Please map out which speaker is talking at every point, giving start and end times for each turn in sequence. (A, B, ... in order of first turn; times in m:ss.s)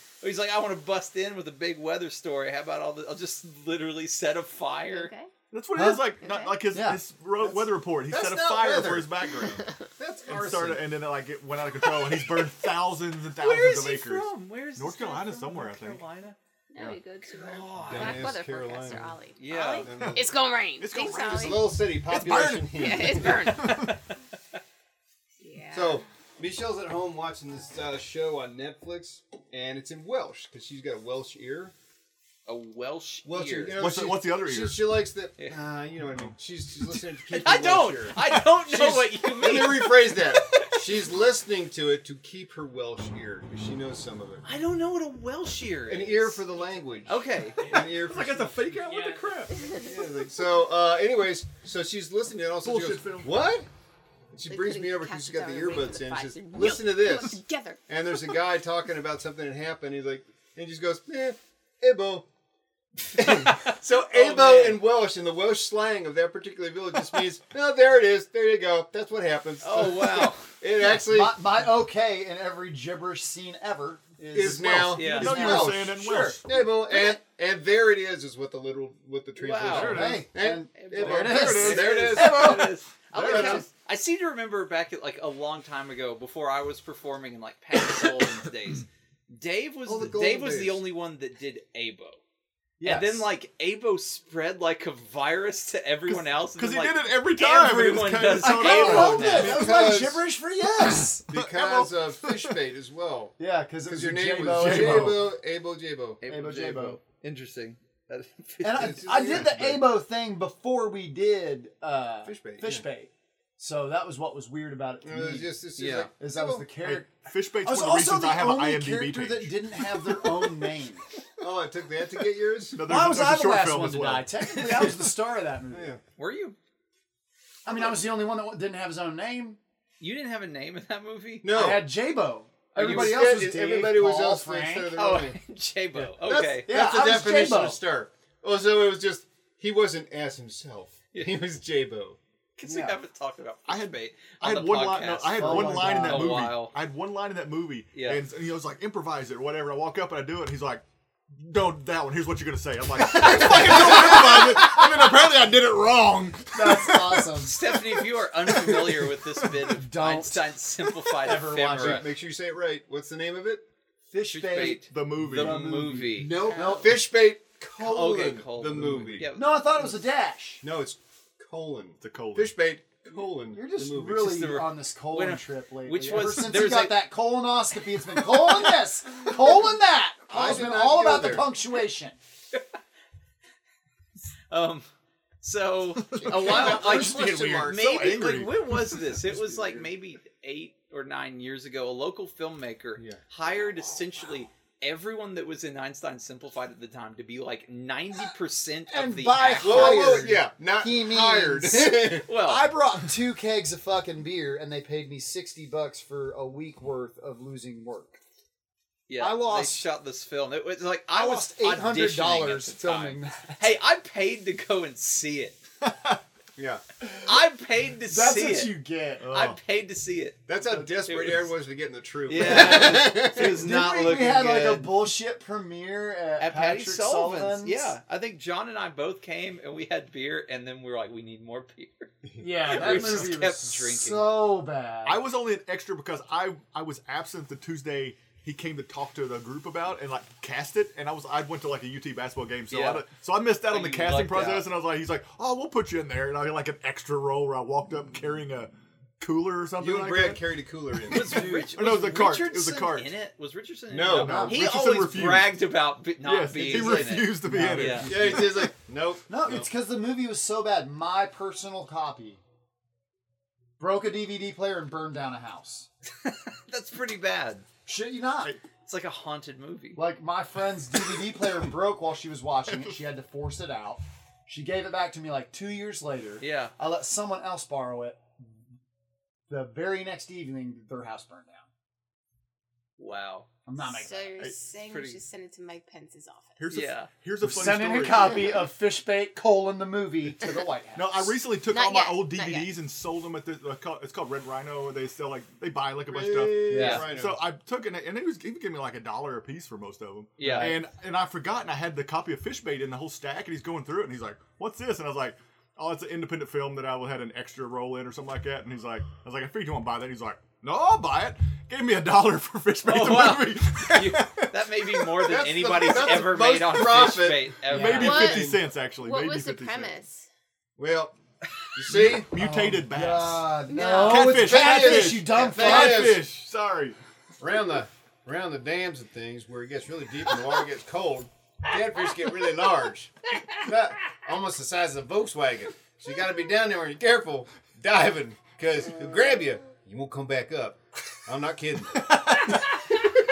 0:00.2-0:05.1 A
0:04.9-0:05.3 B
0:05.5-0:09.7 C
0:05.8-0:06.1 D
0:06.2-0:06.5 B
0:06.7-0:07.0 D
0:07.4-0:09.3 E
0:09.4-0:09.7 B
0:10.0-0:10.9 E
0:10.3-0:16.0 C
0:13.4-0:16.4 A
0:16.7-0:21.8 B
0:17.3-0:18.3 A
0:17.9-0:20.3 E
0:19.4-0:19.9 A
0:19.7-0:24.1 C
0:21.3-0:23.6 E
0:22.7-0:24.0 B
0:25.4-0:26.0 B
0:25.7-0:31.7 E
0:32.5-0:33.8 A
0:33.2-0:44.4 E
0:33.8-0:35.0 C
0:36.0-0:36.3 C
0:37.3-0:40.8 A
0:44.4-0:46.4 A
0:45.9-0:48.7 E
0:47.1-0:47.6 A
0:47.6-0:49.8 C
0:49.5-0:49.9 B
0:49.8-0:53.7 E
0:52.6-0:53.5 C
0:54.3-0:57.4 E
0:54.5-0:58.4 B
0:57.9-1:02.3 E
1:03.0-1:11.4 E
1:03.2-1:04.8 A
1:09.6-1:10.5 A
1:10.8-1:16.4 D
1:14.3-1:23.7 E
1:14.6-1:16.5 C
1:15.0-1:15.5 A
1:19.4-1:20.2 A
1:19.6-1:20.3 C
1:19.7-1:22.6 D
1:21.0-1:22.6 C
1:21.3-1:32.2 A
1:23.2-1:23.6 C
1:29.9-1:30.8 E
1:32.8-1:33.3 D
1:32.8-1:39.7 A
1:36.2-1:39.6 C
1:38.4-1:41.9 D
1:38.8-1:40.2 E
1:41.3-1:46.2 E
1:41.4-1:42.6 C
1:43.4-1:45.3 D
1:44.5-1:45.3 C
1:46.2-1:49.4 A
1:46.3-1:47.0 D
1:48.6-1:55.5 D
1:48.7-1:49.8 E
1:52.2-1:52.9 E
1:55.0-1:56.7 E
1:55.8-1:56.1 A
1:56.2-2:01.1 D
1:56.8-2:00.5 C
2:01.4-2:02.8 E
2:02.7-2:04.3 C
2:02.8-2:06.0 D
2:05.7-2:06.0 E
2:06.2-2:06.6 A
2:07.6-2:09.6 D
2:10.0-2:11.5 A
2:11.4-2:11.9 E
2:11.5-2:15.0 D
2:12.7-2:13.2 A
2:12.8-2:15.4 E
2:15.0-2:16.7 A
2:16.2-2:22.2 E
2:16.5-2:17.8 D
2:21.1-2:21.4 A
2:22.6-2:26.8 A
2:22.6-2:23.0 D
2:23.7-2:37.4 C
2:25.4-2:26.5 D
2:27.9-2:28.2 A
2:33.4-2:33.7 E
2:33.5-2:34.1 A
2:33.5-2:34.8 D
2:36.5-2:37.6 D
2:37.4-2:42.0 A
2:39.7-2:40.5 D
2:41.2-2:42.1 D
2:41.8-2:43.6 E
2:44.1-2:47.0 D
2:44.3-2:46.3 A
2:44.7-2:45.8 C
2:46.3-2:49.3 E
2:46.5-2:46.8 B
2:47.8-2:49.6 A
2:49.2-2:50.6 D
2:50.6-2:54.5 E
2:52.0-2:52.5 C
2:53.5-3:02.2 D
2:54.2-2:57.1 A
3:00.3-3:01.5 E
3:04.5-3:04.9 A
3:05.4-3:20.3 A
3:06.2-3:07.8 D
3:06.2-3:08.2 E
3:07.7-3:09.1 C
3:09.2-3:09.9 E
3:13.0-3:13.2 E
3:18.9-3:28.2 D
3:19.6-3:22.3 E
3:22.3-3:22.7 A
3:29.1-3:35.6 A
3:29.2-3:29.8 D
3:31.1-3:33.7 D
3:35.8-3:36.2 C
3:36.6-3:36.8 E
3:37.0-3:37.3 D
3:37.2-3:38.7 A
3:38.1-3:39.3 D
3:39.2-3:39.6 C
3:39.3-3:40.5 A
3:40.5-3:44.2 E
3:40.6-3:41.1 D
3:41.1-3:41.4 A
3:42.3-3:45.1 A
3:42.4-3:48.0 D
3:46.4-3:54.3 A
3:52.4-3:55.2 D
3:55.0-4:10.5 C
4:02.7-4:03.0 A
4:03.7-4:04.7 A
4:09.8-4:11.4 E
4:11.1-4:18.1 A
4:11.2-4:11.7 D
4:11.7-4:13.1 C
4:13.9-4:14.5 E
4:14.1-4:15.6 C
4:14.2-4:14.6 D
4:16.2-4:18.7 C
4:16.7-4:18.7 D
4:18.1-4:19.7 E
4:19.3-4:22.4 D
4:23.8-4:25.9 D
4:26.2-4:27.6 A
4:27.9-4:28.6 D
4:28.8-4:30.0 A
4:30.0-4:38.2 D
4:36.4-4:36.7 A
4:39.5-4:41.7 D
4:43.0-4:43.5 A
4:43.7-4:44.4 D
4:43.8-4:46.7 B
4:44.9-4:45.2 A
4:46.6-4:48.6 C
4:46.7-4:47.1 A
4:47.4-4:51.4 D
4:51.0-5:15.1 C
4:51.7-4:52.7 B
4:56.1-4:57.5 E
4:56.7-4:57.1 D
4:56.7-4:57.0 A
5:00.4-5:00.8 A
5:00.4-5:00.7 D
5:12.8-5:18.4 A
5:15.2-5:17.6 E
5:17.0-5:19.9 C
5:17.7-5:18.2 D
5:17.9-5:20.3 B
5:18.2-5:18.6 E
5:20.8-5:21.2 E
5:21.7-5:22.3 E
5:21.9-5:27.0 C
5:22.0-5:26.2 D
5:23.7-5:24.3 B
5:24.2-5:26.2 E
5:27.4-5:42.2 E
5:41.9-5:43.0 C